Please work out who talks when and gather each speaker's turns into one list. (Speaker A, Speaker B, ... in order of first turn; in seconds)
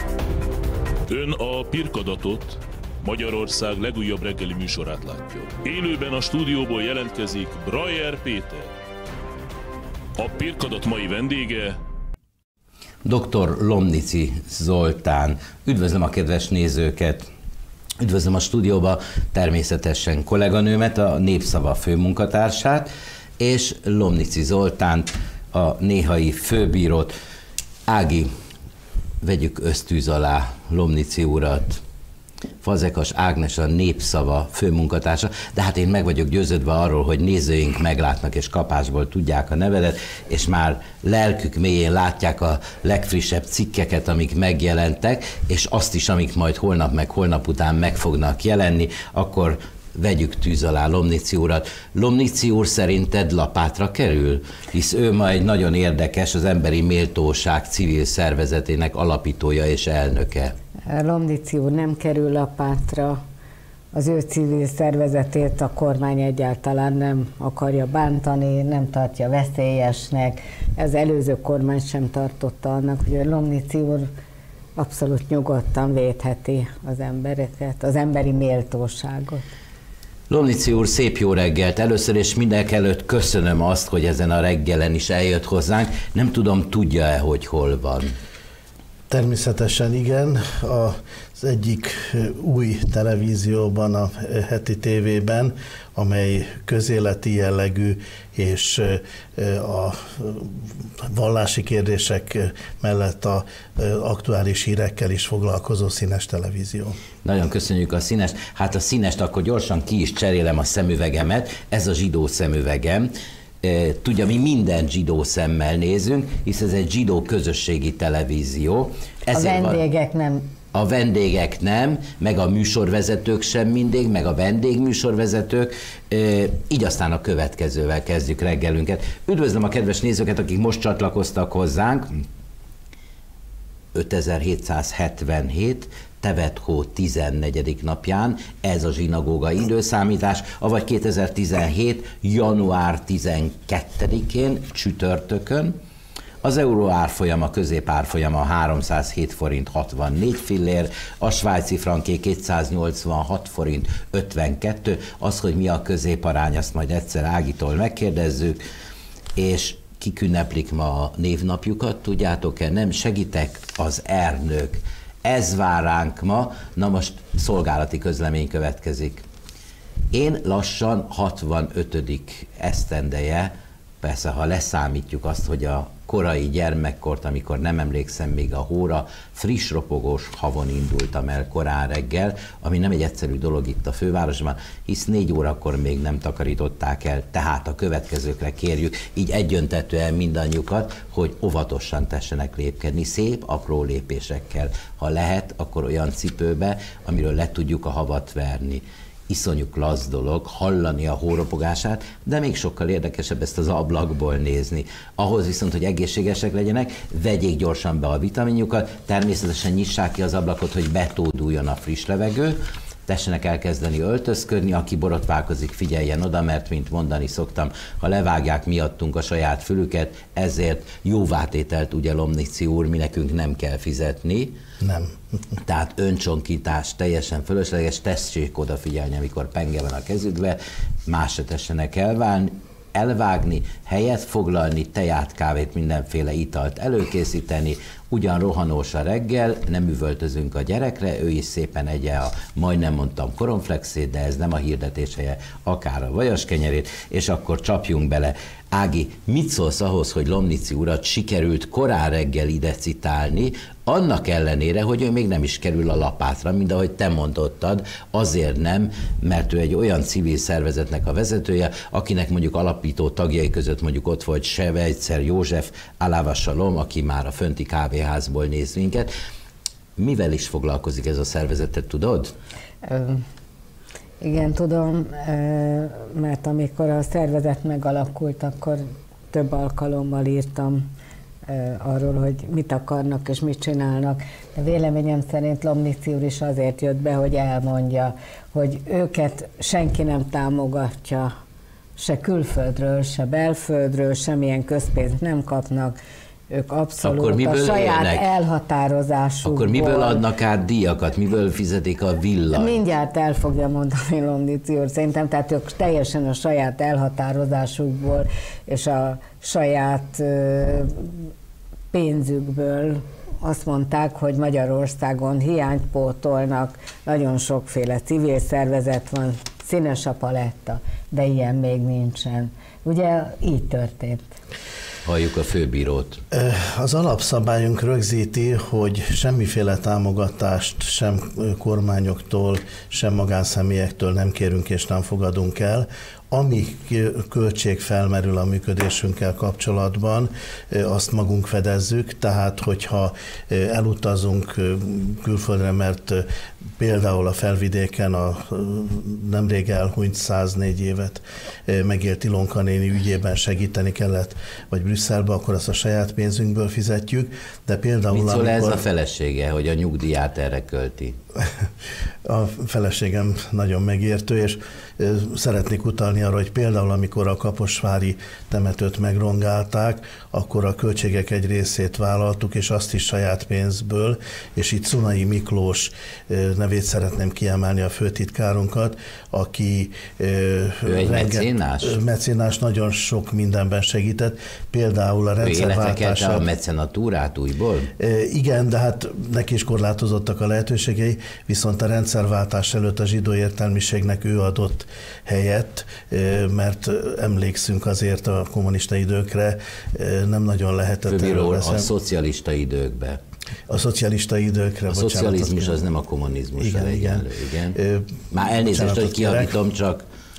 Speaker A: 1.1-8.7, 10.2-11.8
Speaker B: 13.0-17.3, 18.0-27.1, 27.9-28.3, 29.2-31.8, 32.6-60.5, 80.3-88.1, 107.2-113.1, 113.6-119.8, 120.7-132.2, 133.9-145.7, 146.4-158.6, 159.3-169.2, 170.1-224.6, 225.6-269.1, 270.0-272.3, 297.0-298.3, 299.4-302.8, 325.0-326.2, 358.1-361.2, 380.9-381.9, 385.4-387.9, 401.1-403.2, 404.9-407.8, 408.3-410.0
Speaker C: 60.9-63.2, 63.9-74.1, 74.8-79.4, 119.3-120.5, 272.8-273.2, 274.2-280.9, 281.5-291.3, 292.0-295.9, 296.5-300.2, 302.5-311.2, 311.9-324.3
Speaker D: 89.1-107.0, 224.8-225.2, 326.3-346.2, 346.8-358.8, 362.2-386.4, 388.0-401.9, 403.7-405.8, 406.6-409.6